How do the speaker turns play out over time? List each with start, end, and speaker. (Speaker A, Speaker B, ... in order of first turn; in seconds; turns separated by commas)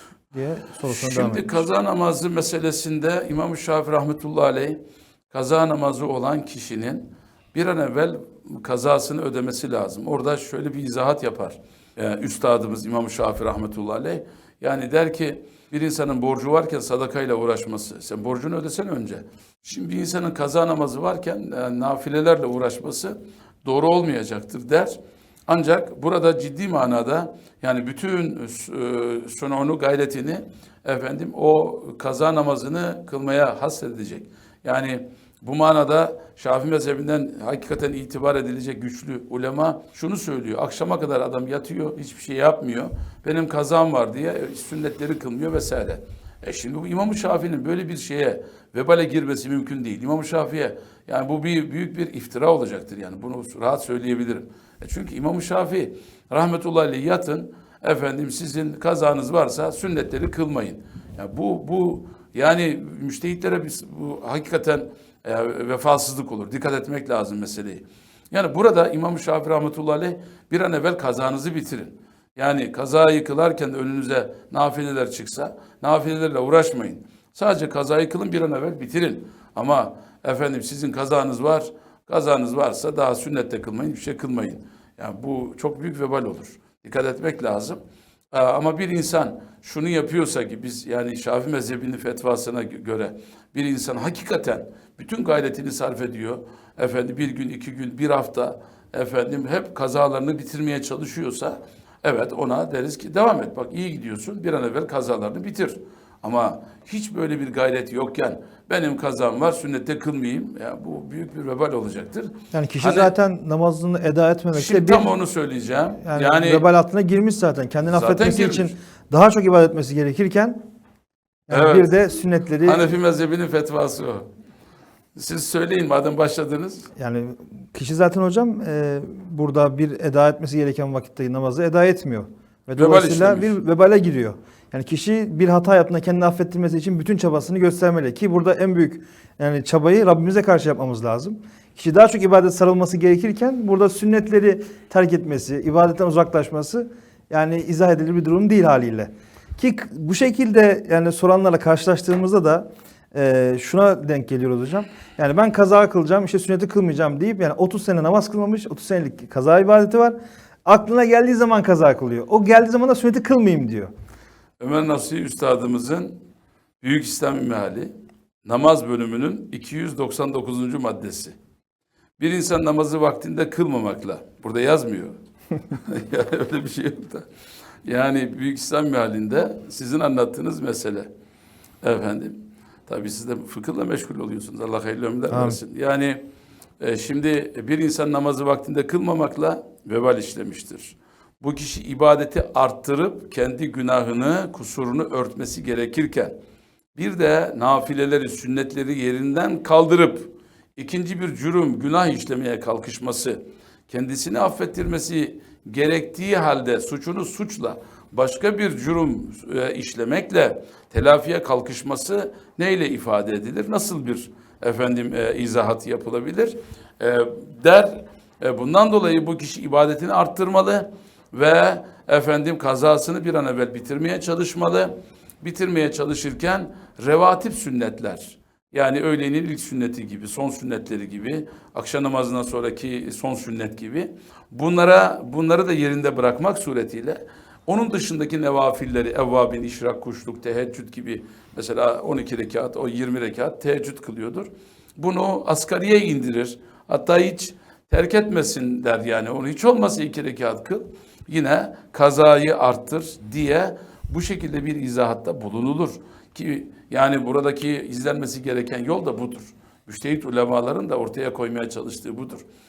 Speaker A: 0.3-1.6, Speaker B: 0.9-87.8, Speaker B: 88.3-113.1, Speaker A: 112.5-115.1, Speaker B: 114.5-116.7, Speaker A: 116.0-120.6, Speaker B: 117.9-118.7, Speaker A: 121.5-122.9, Speaker B: 121.5-121.9, Speaker B: 122.6-124.3, Speaker B: 125.2-126.9, Speaker A: 127.0-163.9, Speaker B: 132.8-133.5, Speaker B: 164.6-166.2, Speaker B: 166.8-167.9, Speaker B: 168.4-171.3, Speaker B: 172.2-175.2, Speaker B: 175.7-177.3, Speaker B: 177.8-181.1, Speaker B: 181.8-186.2, Speaker A: 185.3-185.6, Speaker B: 186.8-196.3, Speaker B: 196.9-262.4